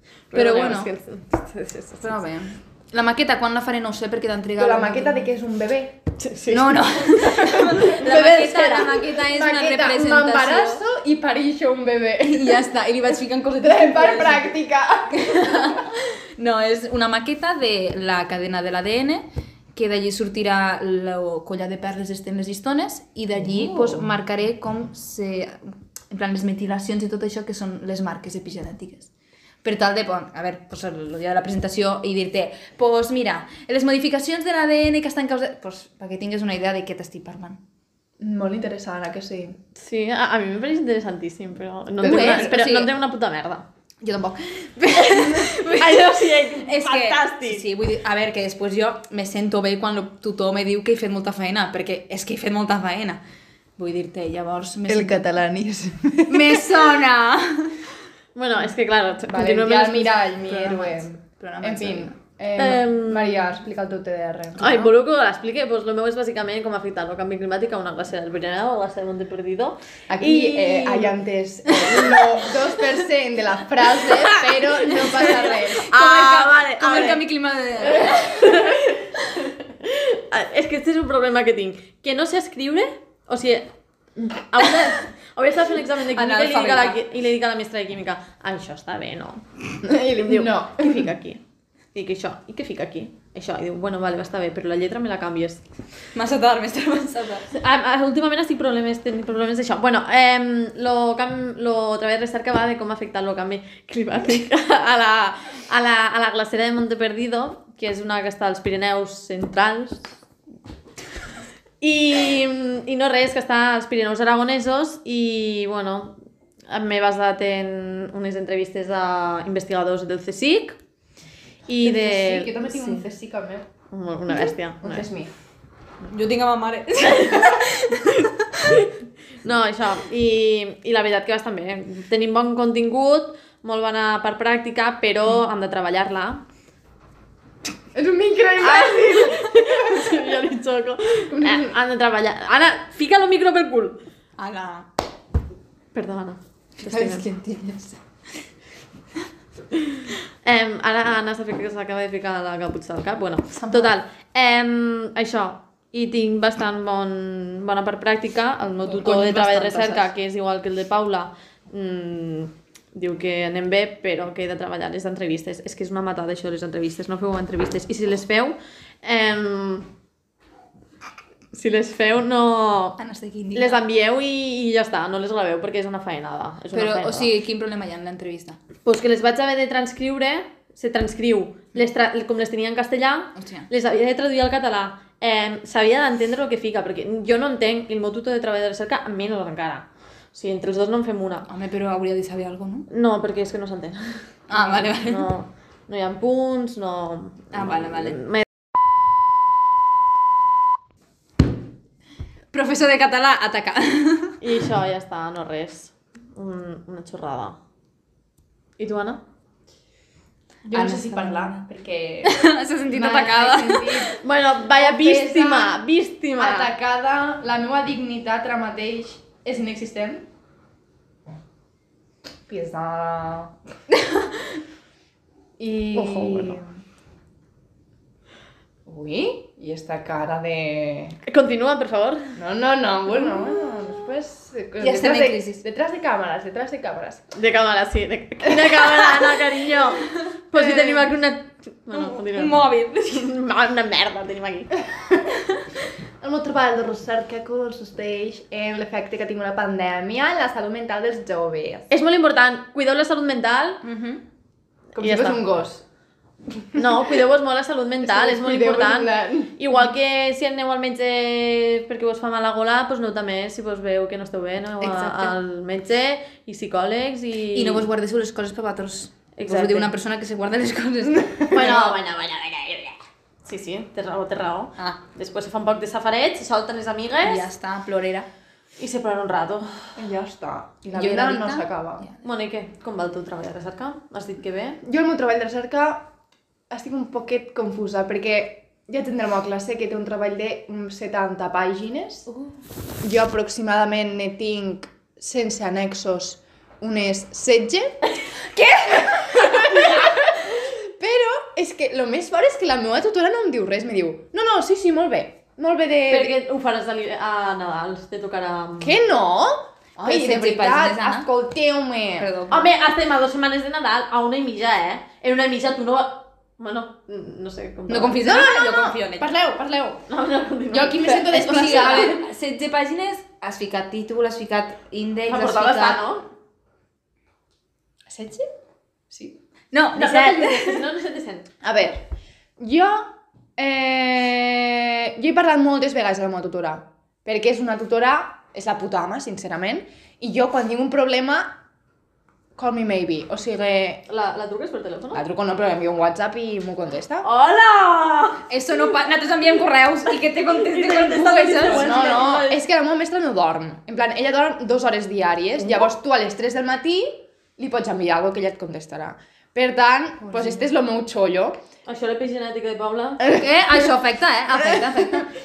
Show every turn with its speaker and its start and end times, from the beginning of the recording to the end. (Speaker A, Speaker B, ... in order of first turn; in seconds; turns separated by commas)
Speaker A: 0.3-2.0, Speaker B: 0.3-0.9, Speaker B: 2.0-5.3, Speaker C: 4.6-6.0, Speaker A: 6.2-9.0, Speaker B: 6.5-10.8, Speaker C: 8.8-12.7, Speaker B: 12.2-14.5, Speaker C: 13.6-15.8, Speaker B: 15.1-19.2, Speaker B: 19.7-29.1, Speaker C: 23.4-24.1, Speaker B: 29.6-37.6, Speaker C: 38.2-39.6, Speaker A: 39.8-43.6, Speaker C: 42.0-42.6, Speaker B: 42.0-42.9, Speaker B: 44.0-53.2, Speaker A: 44.9-47.6, Speaker B: 53.8-55.2, Speaker C: 54.9-56.7, Speaker B: 56.3-57.8, Speaker A: 58.3-60.2, Speaker C: 59.3-64.9, Speaker B: 60.4-62.1, Speaker A: 62.6-63.5, Speaker A: 64.6-71.1, Speaker C: 70.1-75.9, Speaker B: 71.7-72.0, Speaker A: 72.0-72.5, Speaker A: 74.0-77.2, Speaker B: 74.9-78.7, Speaker A: 77.8-89.4, Speaker B: 86.1-87.0, Speaker C: 89.8-91.1, Speaker A: 90.1-91.4, Speaker A: 91.9-95.6, Speaker B: 96.1-97.5, Speaker A: 97.5-110.1, Speaker A: 111.8-116.2, Speaker A: 116.7-120.8, Speaker A: 121.7-122.6, Speaker C: 121.8-123.7, Speaker B: 122.7-123.0, Speaker A: 123.9-125.0, Speaker C: 124.3-125.3, Speaker B: 126.1-128.9, Speaker A: 127.1-127.5, Speaker A: 129.4-136.4, Speaker C: 137.9-140.2, Speaker A: 138.6-144.0, Speaker C: 141.3-141.7, Speaker B: 144.4-144.9, Speaker A: 145.9-147.2, Speaker B: 146.8-148.0, Speaker A: 149.9-169.9, Speaker B: 153.6-153.9, Speaker B: 158.9-160.0, Speaker A: 171.5-173.0, Speaker B: 173.0-173.8, Speaker A: 173.5-177.3, Speaker B: 176.7-178.6, Speaker A: 178.8-191.5, Speaker B: 183.3-183.7, Speaker B: 191.5-192.9, Speaker A: 192.9-198.4, Speaker B: 194.5-195.3, Speaker B: 197.5-198.2, Speaker B: 202.5-204.4, Speaker A: 204.4-207.6, Speaker A: 208.8-209.2, Speaker C: 210.7-215.8, Speaker B: 210.7-211.6, Speaker B: 212.2-214.1, Speaker A: 214.2-216.7, Speaker C: 216.4-220.2, Speaker C: 222.5-223.5, Speaker C: 225.6-226.7, Speaker A: 225.9-226.6, Speaker C: 228.8-231.2, Speaker A: 231.2-232.3, Speaker C: 232.3-237.3, Speaker B: 233.2-233.5, Speaker B: 234.8-235.6, Speaker A: 237.3-244.8, Speaker C: 238.5-239.3, Speaker C: 240.5-241.1, Speaker B: 241.9-243.3, Speaker C: 246.2-251.9, Speaker A: 251.9-253.8, Speaker A: 254.9-255.4, Speaker C: 254.9-255.8, Speaker C: 256.7-257.1, Speaker A: 256.7-267.9, Speaker C: 258.0-259.6, Speaker C: 264.8-265.3, Speaker B: 267.5-271.9, Speaker A: 269.3-269.9, Speaker C: 271.2-271.9, Speaker A: 271.5-277.5, Speaker B: 277.2-278.3, Speaker A: 278.8-279.9, Speaker C: 279.9-282.1, Speaker B: 280.9-282.2, Speaker A: 282.2-284.8, Speaker C: 284.8-286.1, Speaker C: 286.7-292.3, Speaker C: 293.0-306.4, Speaker A: 306.1-309.0, Speaker C: 308.8-312.3, Speaker B: 310.0-311.3, Speaker B: 312.2-312.7, Speaker A: 312.5-318.2, Speaker B: 317.9-319.3, Speaker C: 318.2-320.0, Speaker A: 320.1-322.1, Speaker C: 320.7-322.2, Speaker B: 321.0-326.1, Speaker A: 325.3-326.2, Speaker C: 328.1-328.4, Speaker C: 329.1-329.4, Speaker B: 329.7-330.8, Speaker A: 329.9-331.5, Speaker C: 331.6-332.0, Speaker C: 332.6-341.6, Speaker C: 342.6-344.0, Speaker A: 344.1-345.2, Speaker C: 345.1-347.3, Speaker A: 347.2-348.4, Speaker B: 348.5-352.2, Speaker A: 350.4-352.6, Speaker C: 351.4-361.6, Speaker B: 360.2-360.7, Speaker A: 361.9-363.4, Speaker C: 363.2-363.9, Speaker B: 363.4-365.3, Speaker C: 364.5-365.3